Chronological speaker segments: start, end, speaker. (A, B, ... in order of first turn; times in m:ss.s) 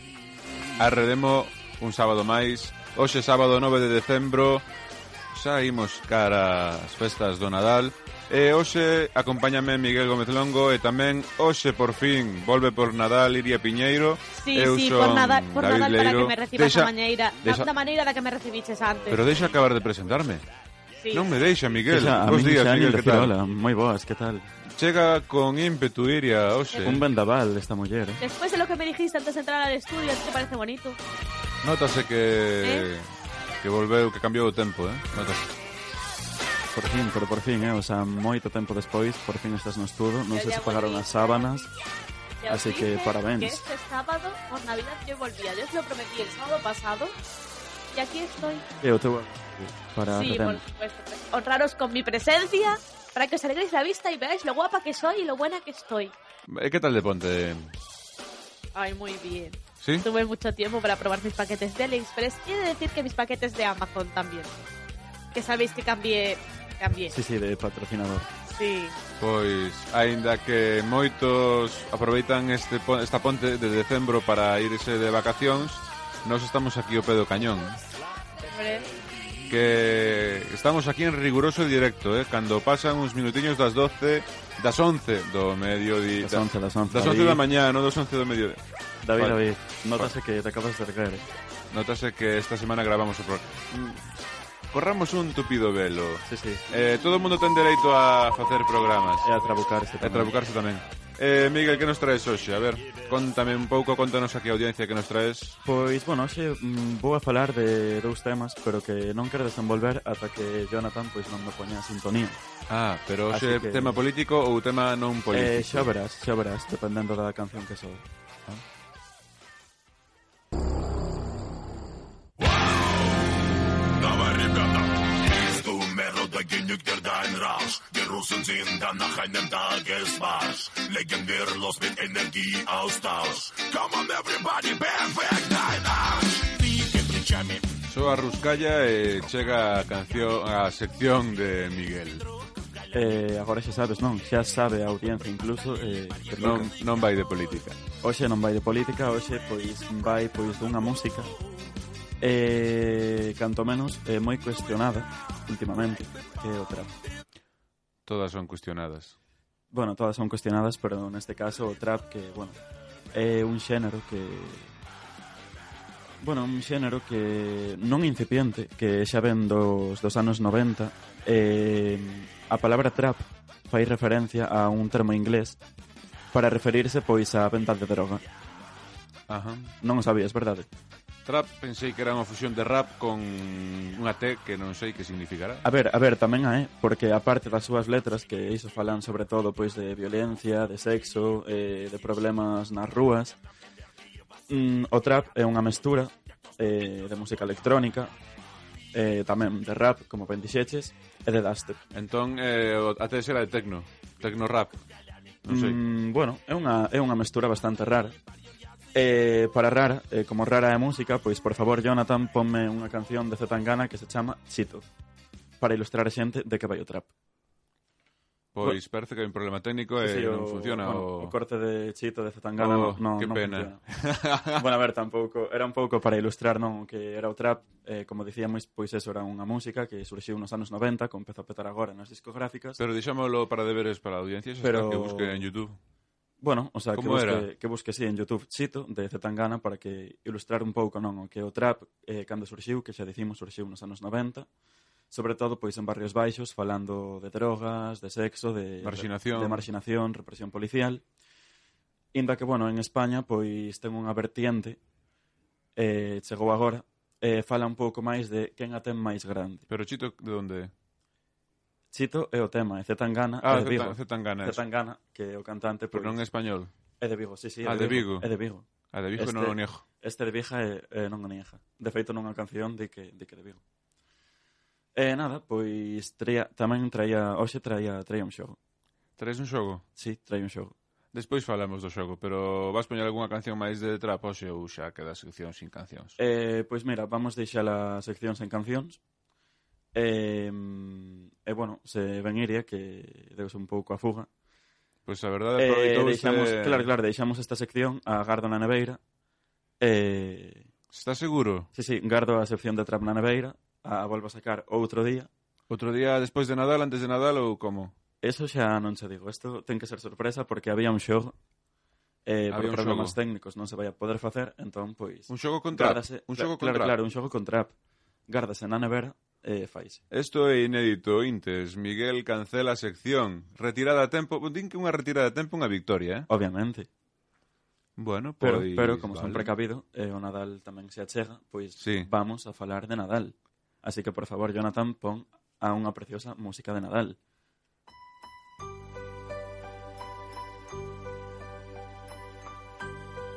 0:00.8-0:04.6 A
0:05.3-0:17.7 A
0:14.4-0:19.2 B
0:19.1-0:20.4 A
0:21.1-0:23.3 A
0:21.9-0:24.5 C
0:24.7-0:27.0 A
0:26.8-0:28.2 C
0:28.2-0:31.0 B
0:31.6-0:33.1 A
0:33.6-0:35.5 A
0:36.7-0:41.7 C
0:40.3-0:41.7 B
0:42.4-0:47.1 B
0:42.5-0:43.6 C
0:47.9-0:48.6 B
0:48.8-0:50.6 C
0:50.1-0:56.2 B
0:56.5-0:57.7 A
0:58.8-1:04.5 B
0:59.8-1:00.1 A
1:05.3-1:07.1 B
1:07.1-1:08.3 C
1:08.5-1:09.0 B
1:09.2-1:17.8 A
1:18.5-1:18.9 B
1:19.5-1:28.6 A
1:26.2-1:27.4 C
1:29.0-1:31.3 C
1:29.2-1:29.4 A
1:31.7-1:34.0 A
1:34.7-1:39.3 A
1:36.3-1:36.6 C
1:39.2-1:40.3 C
1:40.0-1:45.6 A
1:45.6-1:52.4 C
1:52.7-1:55.9 A
1:53.3-1:54.0 C
1:55.3-1:58.0 C
2:02.4-2:03.3 D
2:04.0-2:17.7 D
2:17.9-2:22.3 A
2:22.9-2:26.7 C
2:26.4-2:27.8 A
2:28.0-2:31.3 C
2:32.2-2:36.9 C
2:38.1-2:39.2 A
2:39.7-2:42.6 C
2:43.1-2:44.7 C
2:46.2-2:55.6 C
2:56.3-2:58.2 C
2:59.3-2:59.7 A
2:59.8-3:00.7 C
3:01.3-3:05.6 A
3:05.6-3:13.4 C
3:14.5-3:18.1 C
3:18.9-3:21.8 C
3:21.9-3:24.8 A
3:25.5-3:25.8 A
3:25.5-3:28.2 C
3:28.9-3:34.8 C
3:35.6-3:37.1 C
3:38.5-3:41.3 A
3:40.0-3:43.8 C
3:42.6-3:44.6 A
3:44.6-3:52.8 C
3:52.8-3:55.8 A
3:54.6-3:55.5 C
3:56.4-4:04.5 C
3:57.0-3:57.5 A
4:05.1-4:11.0 C
4:08.8-4:09.7 A
4:12.1-4:14.8 C
4:15.8-4:19.6 C
4:19.7-4:20.7 A
4:21.9-4:26.2 C
4:23.4-4:24.6 A
4:25.9-4:26.7 A
4:27.0-4:33.6 C
4:27.6-4:28.3 A
4:28.9-4:29.8 A
4:35.0-4:38.6 C
4:39.2-4:39.8 A
4:40.0-4:40.7 C
4:41.1-4:46.2 A
4:46.2-4:49.0 C
4:50.0-4:54.3 C
4:55.1-4:56.9 A
4:55.6-4:59.0 C
4:59.8-5:00.7 C
5:00.9-5:01.7 A
5:01.7-5:05.3 C
5:05.7-5:08.0 A
5:08.2-5:11.4 C
5:12.3-5:17.7 C
5:12.5-5:13.2 A
5:15.3-5:17.0 A
5:18.3-5:20.0 C
5:20.1-5:26.3 A
5:26.3-5:26.9 C
5:28.0-5:29.5 A
5:28.4-5:37.2 C
5:31.8-5:32.1 A